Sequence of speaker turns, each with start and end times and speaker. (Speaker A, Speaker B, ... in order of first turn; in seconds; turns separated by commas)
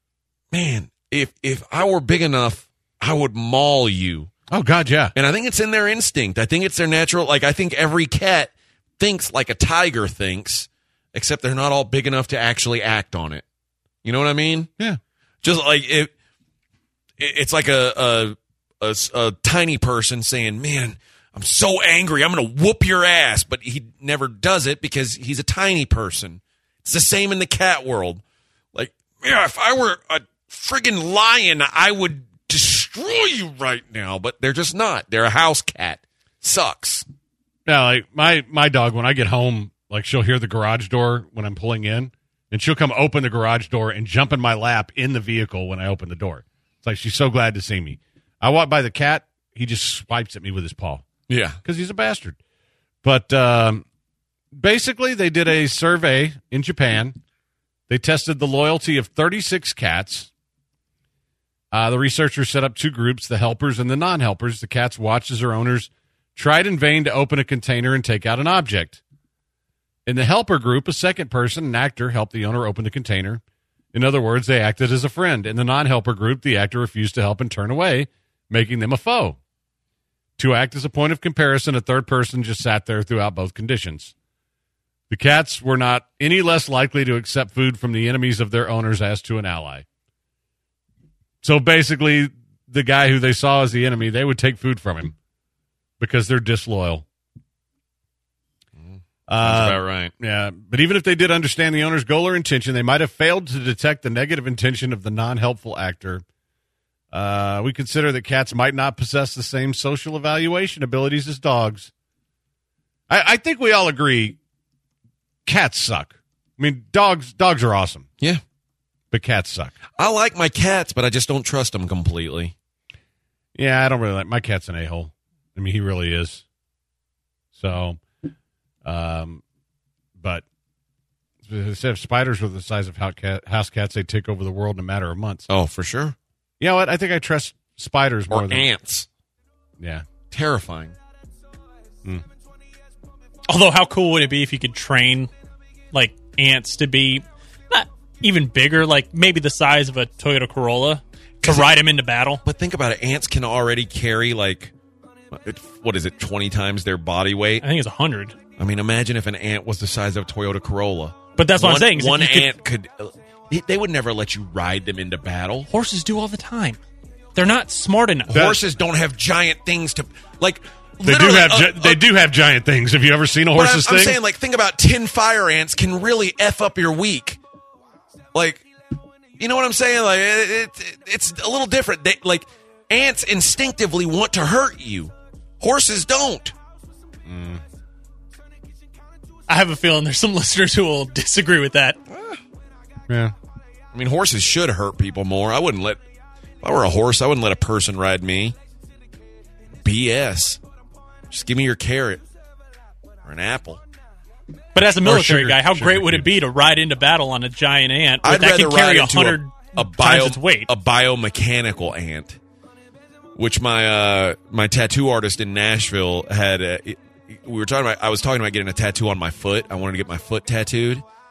Speaker A: 0.5-4.3, Speaker B: 4.5-5.1, Speaker A: 5.2-13.4, Speaker A: 14.0-14.7, Speaker A: 15.4-16.1, Speaker A: 17.2-28.2, Speaker A: 28.7-37.1, Speaker B: 37.7-51.1, Speaker A: 51.3-51.6, Speaker B: 51.6-52.4, Speaker B: 53.0-53.9, Speaker B: 54.5-57.2, Speaker B: 57.9-60.3, Speaker B: 61.7-69.0, Speaker B: 70.1-73.4, Speaker B: 73.9-79.4, Speaker B: 80.4-84.1, Speaker B: 85.1-89.8, Speaker B: 91.4-95.2, Speaker B: 96.0-97.0, Speaker A: 98.8-100.1, Speaker B: 99.3-106.2, Speaker B: 107.1-111.9, Speaker B: 113.1-114.4, Speaker B: 115.5-118.1, Speaker B: 119.1-119.8, Speaker A: 120.0-122.5, Speaker B: 123.5-126.5, Speaker B: 127.5-128.0, Speaker B: 128.8-129.4, Speaker B: 130.2-130.4, Speaker B: 131.4-135.5, Speaker A: 135.5-136.2, Speaker B: 136.6-138.7, Speaker A: 138.3-139.1, Speaker B: 139.8-140.1, Speaker A: 140.3-140.9, Speaker C: 143.5-145.3, Speaker C: 145.9-152.4, Speaker A: 151.4-151.8, Speaker A: 152.4-154.7, Speaker A: 155.3-157.7, Speaker C: 157.6-158.4, Speaker A: 158.6-165.7, Speaker C: 161.4-162.5, Speaker C: 165.7-166.8, Speaker C: 167.3-168.4, Speaker A: 168.3-172.1, Speaker B: 168.3-168.6, Speaker B: 171.0-174.2, Speaker A: 173.6-177.4, Speaker A: 178.3-178.7, Speaker A: 179.4-186.5, Speaker B: 187.2-187.6, Speaker C: 189.5-192.0, Speaker A: 192.1-192.4, Speaker B: 193.1-193.3, Speaker A: 193.9-196.0, Speaker A: 196.6-198.6, Speaker A: 199.8-200.6, Speaker A: 201.3-202.2, Speaker A: 203.2-203.8, Speaker C: 204.8-210.7, Speaker B: 204.8-206.3, Speaker A: 208.2-212.4, Speaker A: 213.4-221.0